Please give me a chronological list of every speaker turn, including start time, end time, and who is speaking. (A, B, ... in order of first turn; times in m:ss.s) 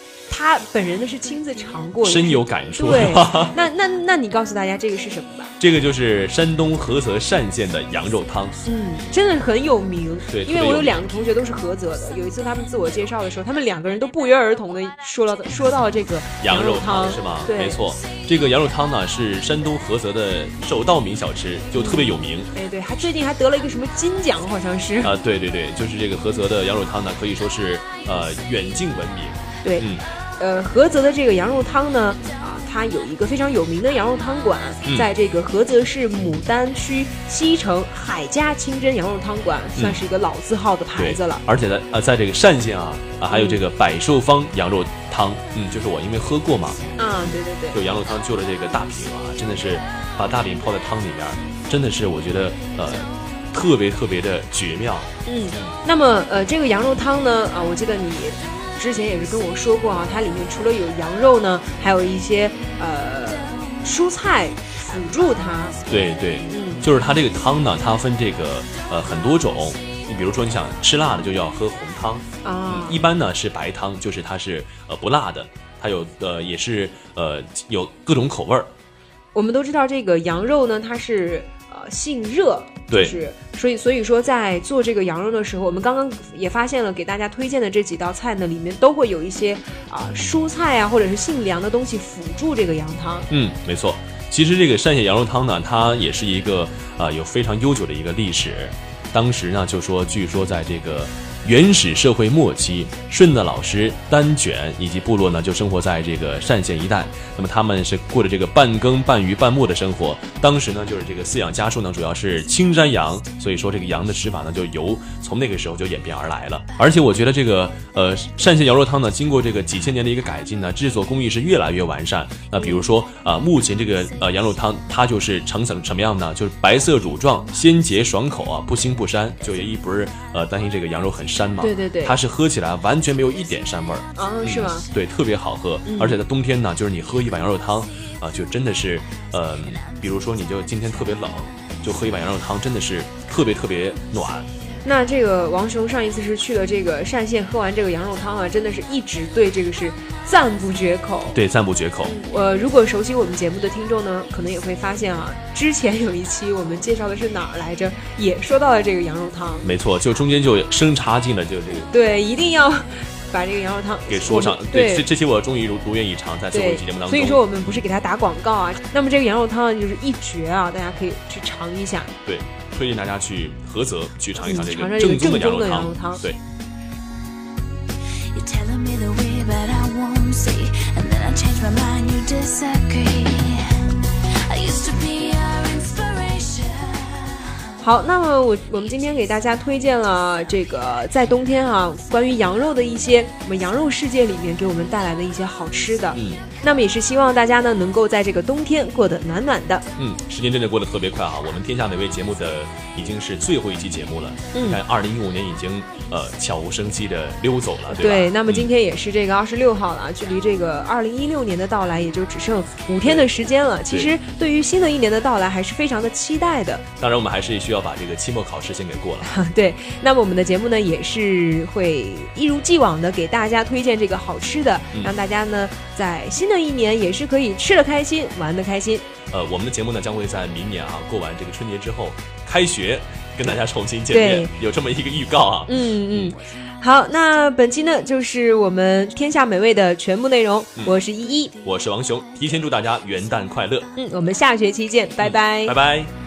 0:00.3-0:05.5 A
0:02.0-0:03.6 B
0:05.6-0:08.6 B
0:08.6-0:17.8 A
0:10.3-0:11.1 B
0:16.4-0:22.5 B
0:21.7-0:25.2 A
0:25.0-0:30.0 B
0:29.6-0:41.4 A
0:39.8-0:40.1 B
0:41.0-0:55.7 B
0:43.3-0:43.6 A
0:47.0-0:47.8 A
0:55.2-1:05.9 A
1:05.9-1:18.7 B
1:06.5-1:06.8 A
1:12.4-1:13.1 A
1:19.3-1:33.3 A
1:22.9-1:23.2 B
1:33.3-2:24.5 B
2:02.6-2:02.8 A
2:11.6-2:12.2 A
2:14.2-2:14.9 A
2:15.8-2:16.2 A
2:24.8-2:31.4 A
2:31.3-2:32.2 B
2:32.0-2:39.7 A
2:39.6-2:41.9 B
2:41.9-2:45.0 A
2:44.1-2:47.8 B
2:46.5-2:52.1 A
2:52.2-2:56.4 B
2:54.4-2:56.2 A
2:58.3-3:07.3 C
3:07.8-3:19.8 A
3:16.1-3:16.4 B
3:20.0-3:28.7 B
3:24.5-3:24.8 A
3:27.9-3:36.9 A
3:33.0-3:33.3 B
3:33.9-3:34.2 B
3:37.0-3:39.3 B
3:39.2-3:49.1 A
3:49.3-3:56.3 B
3:54.1-3:54.5 A
3:55.7-4:01.6 A
4:01.6-4:03.9 B
4:04.0-4:05.8 A
4:05.2-4:06.1 B